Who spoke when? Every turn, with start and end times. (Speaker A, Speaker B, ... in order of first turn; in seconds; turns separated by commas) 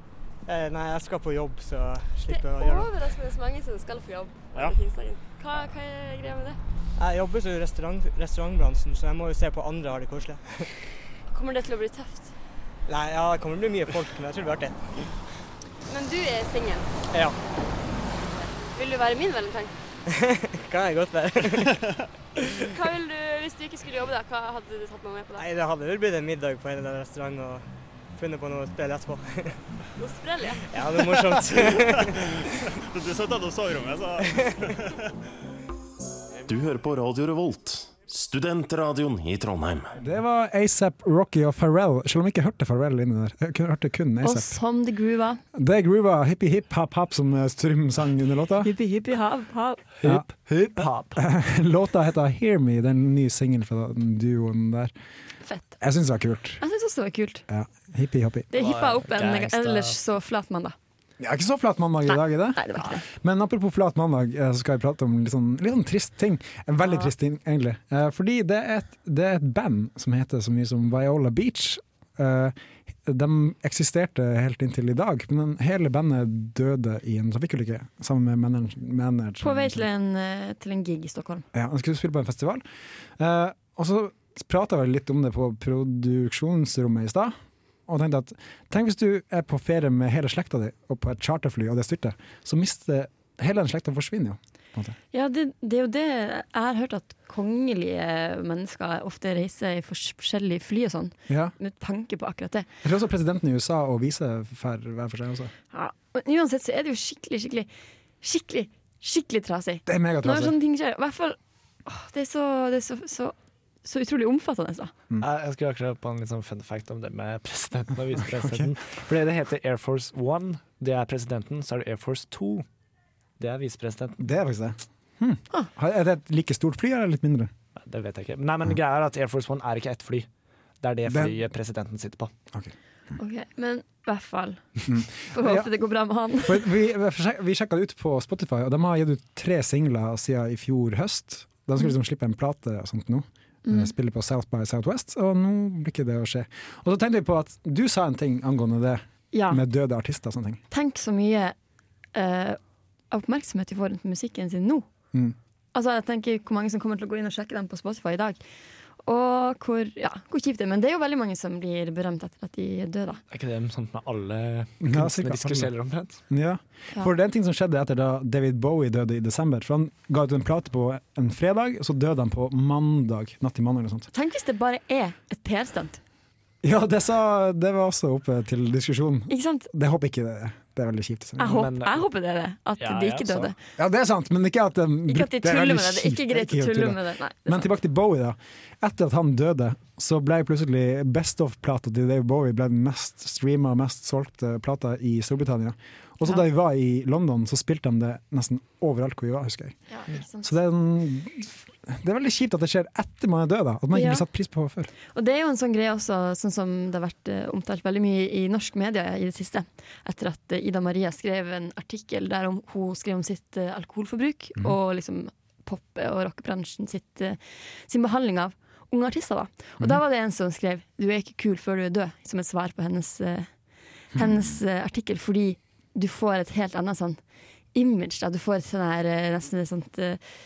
Speaker A: 0.5-2.9, Speaker B: 2.3-6.6, Speaker A: 7.0-10.7, Speaker B: 11.3-12.3, Speaker A: 12.9-15.0, Speaker B: 15.9-16.9, Speaker A: 17.1-17.4, Speaker B: 18.2-19.7, Speaker A: 20.1-21.8, Speaker B: 22.6-25.5, Speaker A: 25.4-29.6, Speaker B: 30.0-30.6, Speaker A: 30.7-32.2, Speaker C: 31.4-35.0, Speaker A: 34.3-34.6, Speaker D: 36.5-39.9, Speaker E: 40.0-44.6, Speaker F: 44.2-45.4, Speaker E: 45.5-48.7, Speaker F: 48.6-49.8, Speaker G: 50.0-51.2, Speaker E: 50.0-54.9, Speaker F: 55.5-55.8, Speaker E: 55.8-56.6, Speaker F: 56.6-57.5, Speaker E: 57.5-58.5, Speaker F: 58.5-60.8, Speaker G: 58.5-60.0, Speaker E: 61.2-79.9, Speaker F: 62.1-63.0, Speaker F: 79.4-81.5, Speaker E: 81.5-82.6, Speaker E: 83.2-87.4, Speaker E: 87.9-95.0, Speaker F: 95.1-102.7, Speaker E: 102.8-105.5, Speaker F: 105.7-107.7, Speaker F: 108.2-114.9, Speaker E: 109.9-110.6, Speaker G: 115.2-122.7, Speaker E: 118.3-118.7, Speaker G: 123.4-124.2, Speaker E: 124.2-127.5, Speaker G: 127.8-130.3, Speaker G: 130.8-132.3, Speaker E: 131.1-131.4, Speaker F: 133.2-136.7, Speaker E: 134.9-135.7, Speaker E: 136.5-150.6, Speaker F: 143.7-143.9, Speaker F: 149.3-149.6, Speaker F: 150.7-151.6, Speaker F: 152.1-152.6, Speaker F: 153.1-154.9, Speaker F: 155.7-158.4, Speaker F: 159.1-163.2, Speaker G: 163.3-166.2, Speaker E: 164.8-165.7, Speaker E: 166.3-174.1, Speaker F: 174.1-176.0, Speaker E: 176.6-181.7, Speaker F: 179.3-179.7, Speaker F: 181.4-183.6, Speaker G: 181.5-182.1, Speaker G: 182.8-183.5, Speaker E: 183.8-199.8, Speaker F: 185.1-187.7, Speaker F: 199.9-200.5, Speaker E: 200.4-204.9, Speaker F: 203.9-204.2, Speaker F: 205.1-223.5, Speaker F: 224.1-227.2, Speaker F: 227.7-230.2